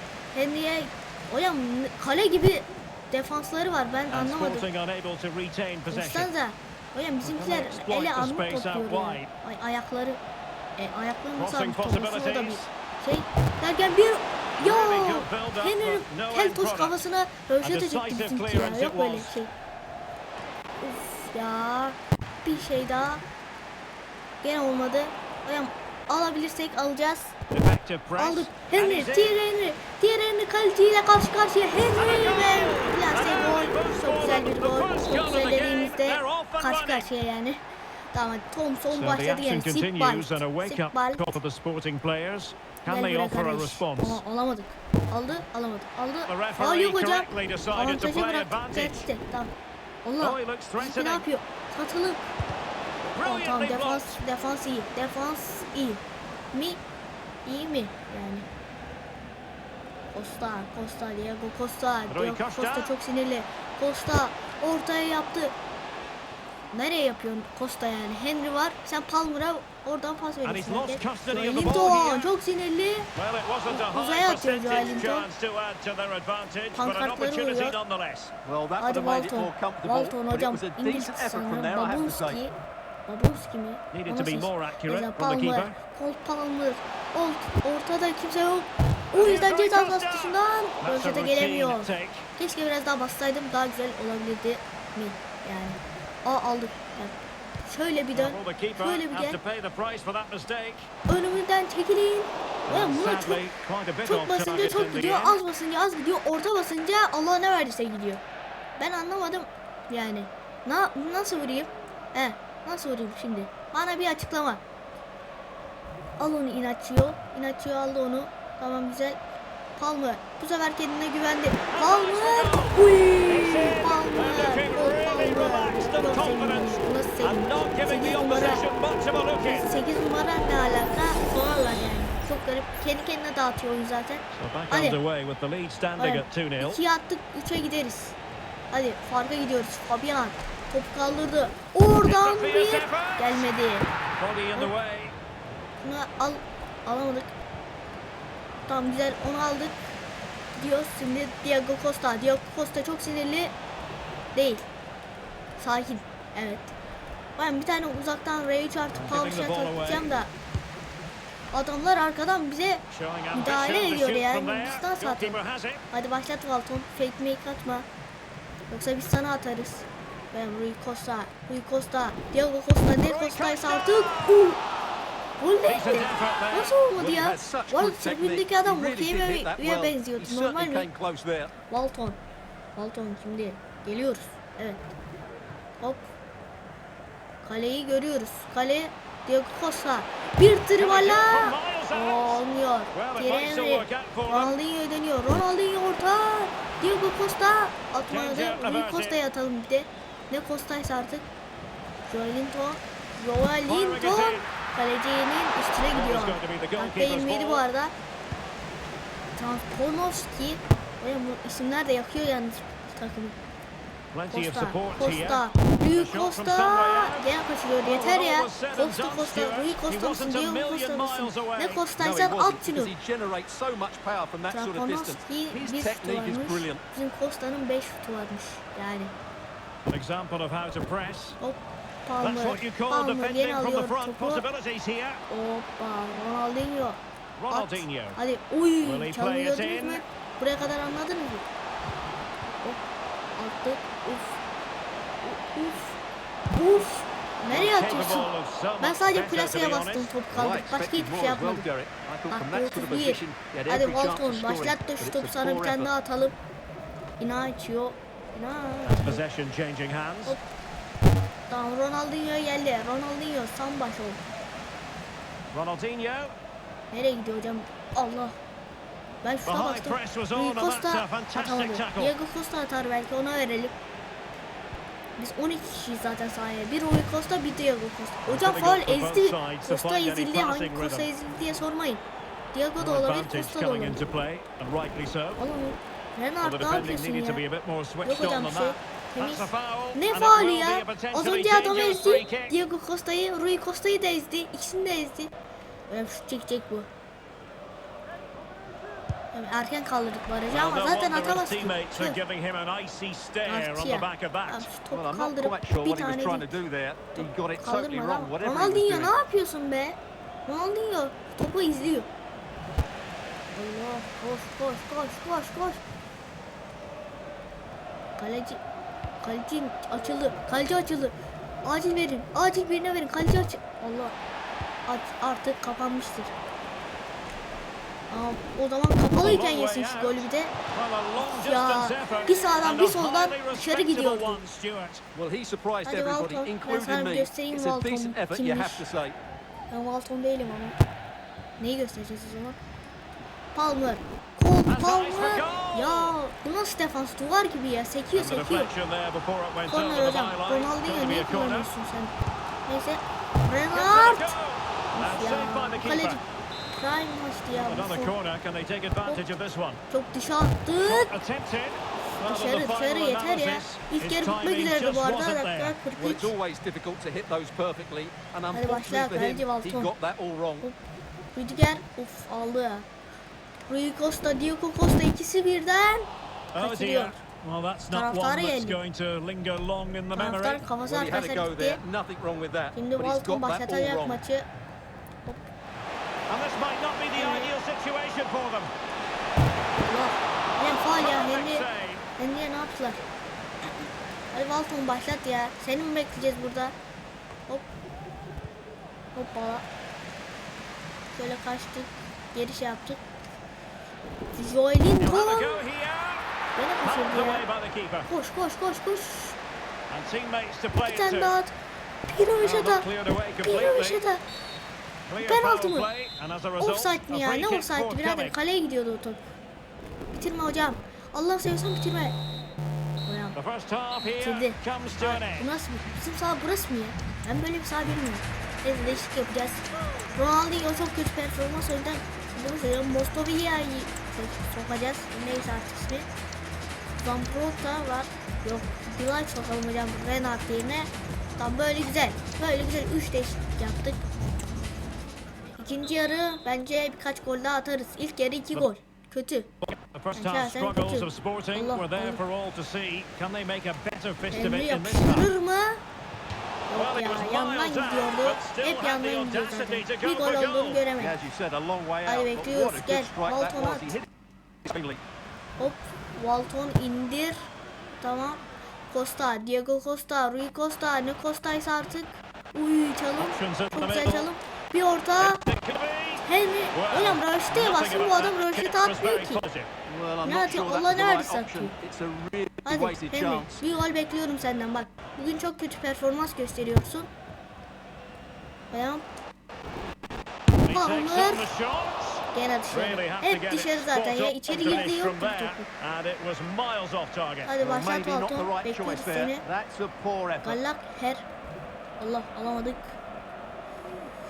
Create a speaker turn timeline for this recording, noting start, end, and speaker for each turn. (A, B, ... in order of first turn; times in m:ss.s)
0:00.3-0:04.6 A
0:04.1-0:06.3 B
0:05.9-0:10.2 A
0:07.2-0:09.3 B
0:10.8-0:19.5 A
0:11.4-0:12.7 B
0:14.6-0:17.0 B
0:17.6-0:19.4 B
0:20.8-0:23.2 A
0:24.4-0:27.4 A
0:27.5-0:29.4 B
0:28.2-0:41.4 A
0:32.0-0:37.1 B
0:38.9-0:44.2 B
0:42.9-0:49.5 A
0:46.3-0:49.1 B
0:50.0-0:52.3 A
0:50.2-0:51.2 B
0:53.1-0:54.2 B
0:53.2-0:56.8 A
0:57.4-0:58.4 A
1:00.1-1:05.6 A
1:02.1-1:02.9 B
1:06.7-1:13.1 A
1:10.4-1:12.3 B
1:13.1-1:18.3 B
1:13.7-1:15.3 A
1:16.7-1:17.8 A
1:18.4-1:22.4 C
1:18.8-1:22.6 A
1:23.1-1:39.4 A
1:23.9-1:25.8 B
1:29.1-1:32.3 B
1:38.1-1:40.9 B
1:41.1-1:43.4 A
1:42.7-1:45.4 B
1:44.0-1:48.2 A
1:48.8-1:54.6 A
1:56.2-1:59.2 A
1:59.8-2:08.6 A
2:01.7-2:09.7 B
2:09.4-2:15.0 A
2:14.3-2:16.8 B
2:16.0-2:18.2 A
2:18.7-2:23.9 A
2:22.0-2:23.5 B
2:24.2-2:25.1 B
2:25.8-2:27.3 A
2:28.7-2:29.8 A
2:30.6-2:33.5 A
2:34.3-2:34.6 A
2:35.6-2:36.7 A
2:37.4-2:40.3 A
2:38.9-2:40.2 B
2:41.5-2:45.4 A
2:42.9-2:45.8 B
2:45.9-2:47.9 A
2:48.7-2:54.6 A
2:53.0-2:54.6 B
2:55.4-3:00.9 A
2:55.6-2:56.8 B
2:56.9-3:01.5 C
3:01.7-3:02.2 A
3:02.8-3:04.9 A
3:05.8-3:06.0 A
3:07.4-3:21.3 A
3:10.8-3:14.6 B
3:18.1-3:19.2 B
3:22.1-3:27.9 A
3:23.6-3:24.5 B
3:25.9-3:27.6 B
3:29.4-3:33.4 A
3:34.1-3:37.3 B
3:34.3-3:42.9 A
3:37.8-3:41.8 B
3:42.0-3:46.8 C
3:44.5-3:49.1 A
3:49.9-3:51.4 B
3:51.4-3:54.4 A
3:52.2-3:55.2 B
3:55.3-4:01.4 A
3:57.4-3:58.2 B
3:58.8-4:00.0 B
4:03.4-4:04.4 A
4:05.2-4:06.0 A
4:06.5-4:08.3 A
4:07.5-4:10.1 B
4:08.8-4:11.6 A
4:10.3-4:15.9 C
4:12.3-4:16.4 A
4:17.2-4:19.2 A
4:18.9-4:20.4 B
4:21.5-4:24.2 A
4:25.5-4:26.3 B
4:26.9-4:28.4 A
4:29.2-4:33.7 A
4:29.5-4:32.1 B
4:35.2-4:42.0 A
4:38.2-4:41.1 B
4:42.5-4:44.0 A
4:42.8-4:45.4 B
4:45.4-4:47.4 A
4:46.4-4:52.6 B
4:48.0-4:55.3 A
4:55.9-4:56.9 A
4:59.3-5:02.2 A
5:00.5-5:04.7 B
5:03.4-5:06.6 A
5:04.9-5:09.1 C
5:07.2-5:12.1 A
5:13.5-5:15.8 A
5:18.2-5:18.6 A
5:19.2-5:24.1 A
5:24.9-5:26.3 A
5:28.1-5:30.6 A
5:29.1-5:35.0 B
5:31.2-5:34.4 A
5:35.1-5:39.2 C
5:35.8-5:38.8 A
5:39.7-5:40.8 A
5:41.6-5:42.6 A
5:43.5-5:48.7 A
5:44.7-5:46.2 B
5:48.2-5:51.7 B
5:49.7-5:52.1 A
5:52.7-5:54.4 A
5:53.7-5:56.2 B
5:54.9-5:58.1 A
5:57.5-5:59.8 B
5:59.9-6:01.1 A
6:00.8-6:05.8 B
6:02.2-6:06.3 A
6:06.0-6:10.7 C
6:08.5-6:09.9 A
6:11.3-6:12.8 A
6:13.7-6:17.2 A
6:16.5-6:20.6 B
6:17.9-6:18.8 A
6:20.1-6:21.8 A
6:20.8-6:24.2 C
6:22.7-6:24.5 A
6:26.3-6:28.7 B
6:27.2-6:27.5 A
6:29.9-6:31.6 A
6:30.9-6:32.0 B
6:32.2-6:33.0 A
6:34.3-6:36.7 A
6:39.1-6:39.6 A
6:41.1-6:43.0 A
6:44.3-6:45.6 A
6:45.0-6:46.3 B
6:46.6-6:47.4 A
6:46.8-6:48.1 B
6:48.1-6:49.4 A
6:49.9-6:51.3 B
6:50.8-6:51.5 A
6:52.1-6:52.9 A
6:52.4-6:54.0 B
6:53.4-6:54.2 A
6:55.1-6:58.3 B
6:55.2-6:55.9 A
6:56.6-6:59.2 A
7:00.1-7:02.2 A
7:03.0-7:03.4 A
7:03.3-7:05.5 B
7:04.2-7:16.1 A
7:17.0-7:24.0 A
7:25.5-7:29.5 A
7:29.6-7:35.3 B
7:30.1-7:32.2 A
7:34.3-7:35.8 A
7:36.7-7:41.2 A
7:36.7-7:40.8 B
7:41.0-7:44.1 C
7:42.0-7:44.0 A
7:44.6-7:45.0 C
7:45.6-7:47.5 A
7:48.0-7:55.4 A
7:53.2-7:54.3 B
7:55.2-7:59.7 B
7:56.2-7:59.4 A
7:59.9-8:03.5 C
8:00.2-8:01.7 A
8:02.6-8:07.1 A
8:08.7-8:09.0 A
8:10.6-8:17.5 B
8:10.6-8:11.5 A
8:12.3-8:15.7 A
8:17.4-8:19.4 A
8:17.6-8:20.6 C
8:20.4-8:21.2 A
8:22.0-8:23.0 A